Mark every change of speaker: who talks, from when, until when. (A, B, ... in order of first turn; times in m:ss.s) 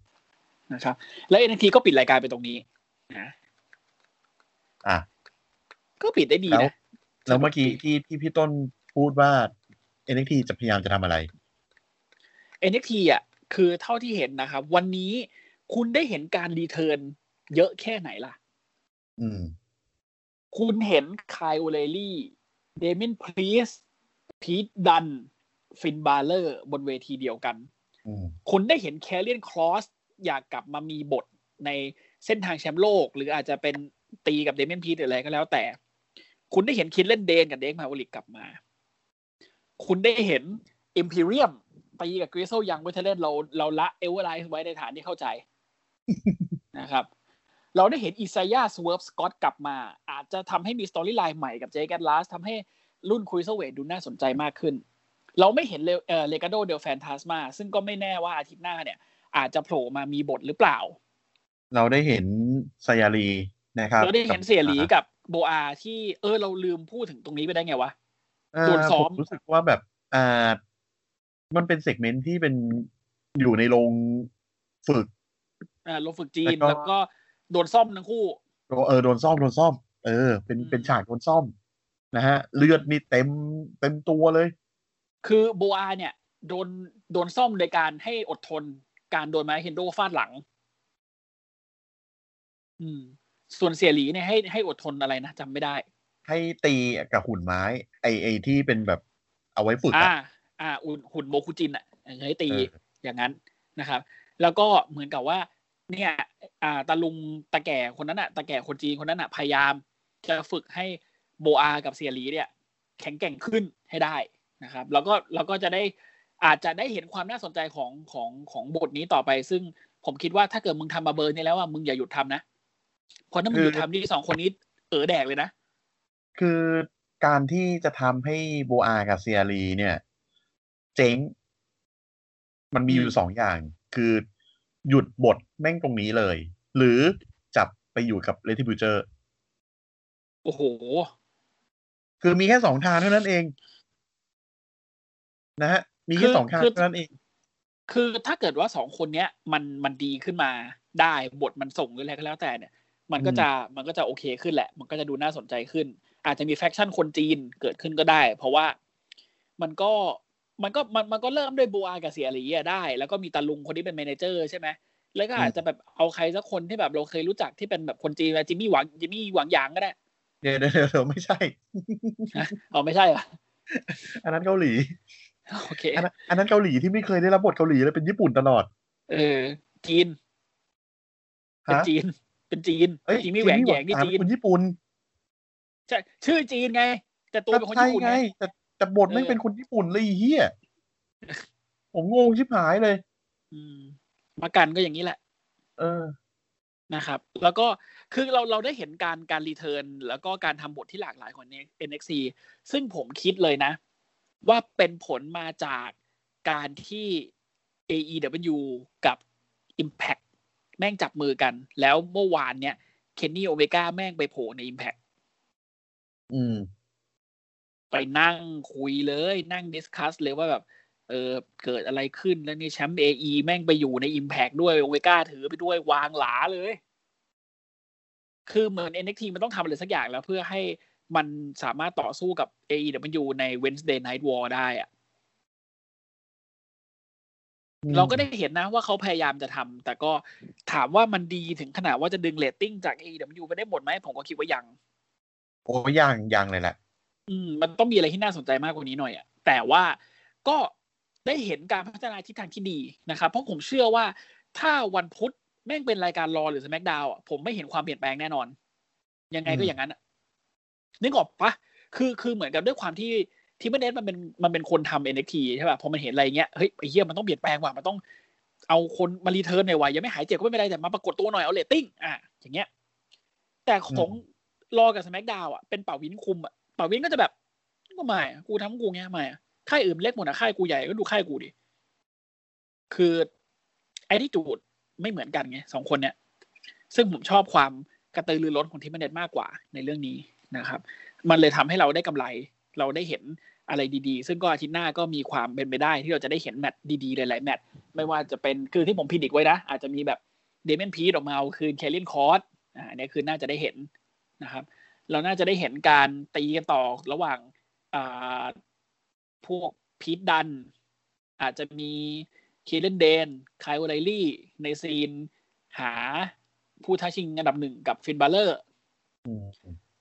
0:00.7-0:03.3 A
0:06.0-0:06.7 A
0:07.2-0:09.5 B
0:07.3-0:07.8 A
0:10.1-0:11.3 B
0:12.6-0:18.4 A
0:19.2-0:19.5 B
0:20.5-0:23.8 A
0:24.4-0:27.7 A
0:28.0-0:28.3 B
0:28.4-0:35.8 A
0:36.5-0:38.6 A
0:39.8-0:45.4 A
0:46.1-0:46.5 B
0:46.7-0:47.1 A
0:47.7-0:54.8 A
0:55.4-1:01.0 A
1:01.7-1:04.9 B
1:04.0-1:07.9 A
1:08.5-1:10.6 B
1:08.6-1:09.3 A
1:11.5-1:14.3 B
1:14.8-1:15.1 B
1:15.8-1:18.4 A
1:16.4-1:16.8 B
1:18.7-1:21.5 B
1:20.6-1:20.9 A
1:22.1-1:24.5 B
1:22.6-1:22.9 A
1:25.2-1:30.4 A
1:32.8-1:35.8 A
1:36.3-1:39.0 B
1:39.5-1:40.1 B
1:39.9-2:02.4 A
2:03.3-2:05.5 A
2:03.5-2:03.8 B
2:06.4-2:10.0 B
2:10.9-2:11.3 B
2:12.7-2:14.2 B
2:12.9-2:13.2 A
2:14.8-2:19.0 B
2:20.4-2:21.1 A
2:22.2-2:23.5 B
2:25.6-2:27.1 B
2:26.2-2:26.8 A
2:27.9-2:38.8 A
2:33.2-2:33.5 B
2:39.6-2:49.9 A
2:50.4-2:52.4 B
2:52.3-2:53.3 A
2:53.7-2:55.0 B
2:55.5-2:56.1 A
2:55.9-2:58.7 B
2:59.1-3:00.1 A
3:01.7-3:04.2 A
3:03.1-3:04.8 B
3:05.9-3:08.2 A
3:07.5-3:10.5 B
3:09.1-3:09.4 A
3:11.9-3:13.0 B
3:13.5-3:15.2 A
3:15.8-3:16.1 B
3:16.9-3:23.8 A
3:24.4-3:27.3 A
3:27.9-3:29.2 A
3:29.8-3:30.2 A
3:30.8-3:35.0 A
3:36.3-3:36.7 B
3:37.9-3:46.8 A
3:48.5-3:54.9 A
3:57.8-3:58.2 B
3:57.9-4:04.7 A
4:05.7-4:06.8 B
4:07.3-4:10.7 A
4:11.2-4:18.5 A
4:19.3-4:20.0 A
4:19.4-4:19.7 B
4:21.0-4:28.0 A
4:28.7-4:32.7 A
4:33.6-4:37.3 A
4:33.9-4:34.2 B
4:38.0-4:41.5 A
4:42.9-4:43.3 A
4:44.1-4:46.1 A
4:46.9-5:03.9 A
5:04.4-5:08.5 A
5:09.4-5:10.7 A
5:11.4-5:18.6 A
5:19.2-5:19.8 B